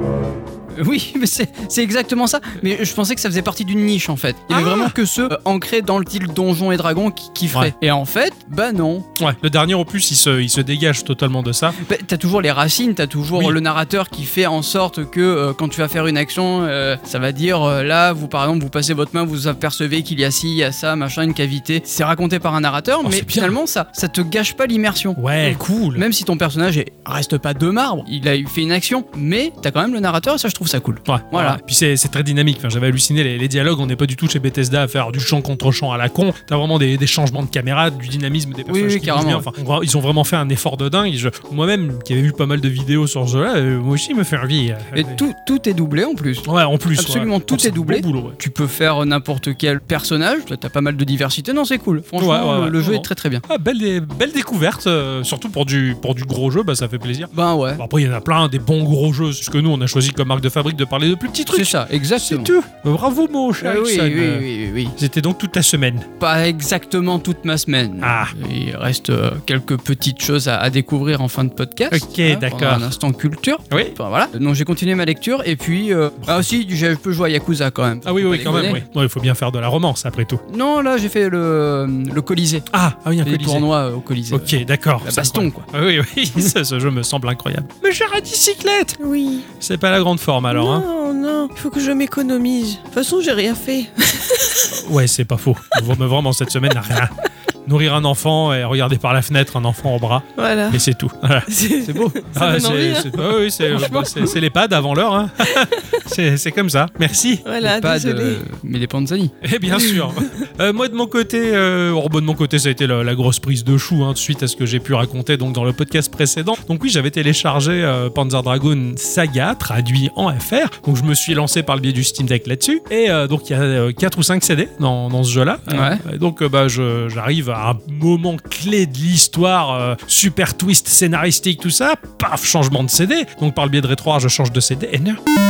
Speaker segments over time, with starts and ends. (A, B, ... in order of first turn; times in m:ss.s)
0:00.7-0:09.0 A
0:09.2-0:11.8 B
0:11.8-0:31.6 A
0:23.0-0:23.6 B
0:25.2-0:26.0 B
0:31.0-0:45.2 B
0:38.7-0:39.5 A
0:44.9-0:53.4 A
0:46.4-0:48.4 B
0:52.2-1:06.1 B
0:57.3-0:57.8 A
1:01.5-1:02.5 A
1:03.6-1:04.9 A
1:06.2-1:18.8 A
1:08.0-1:08.3 B
1:11.9-1:12.9 B
1:18.0-1:20.4 B
1:20.5-1:22.6 A
1:22.7-1:23.7 B
1:23.2-1:25.7 A
1:24.3-1:29.0 B
1:29.0-1:29.5 C
1:29.6-1:30.8 B
1:30.5-1:34.7 C
1:34.7-1:37.1 B
1:37.6-1:41.5 B
1:40.4-1:40.8 C
1:41.5-1:44.3 C
1:41.8-1:42.2 A
1:42.3-1:47.4 B
1:45.5-1:46.0 C
1:47.4-1:48.4 C
1:47.6-1:49.3 A
1:49.4-2:15.2 B
1:49.8-1:50.1 C
2:05.7-2:06.0 A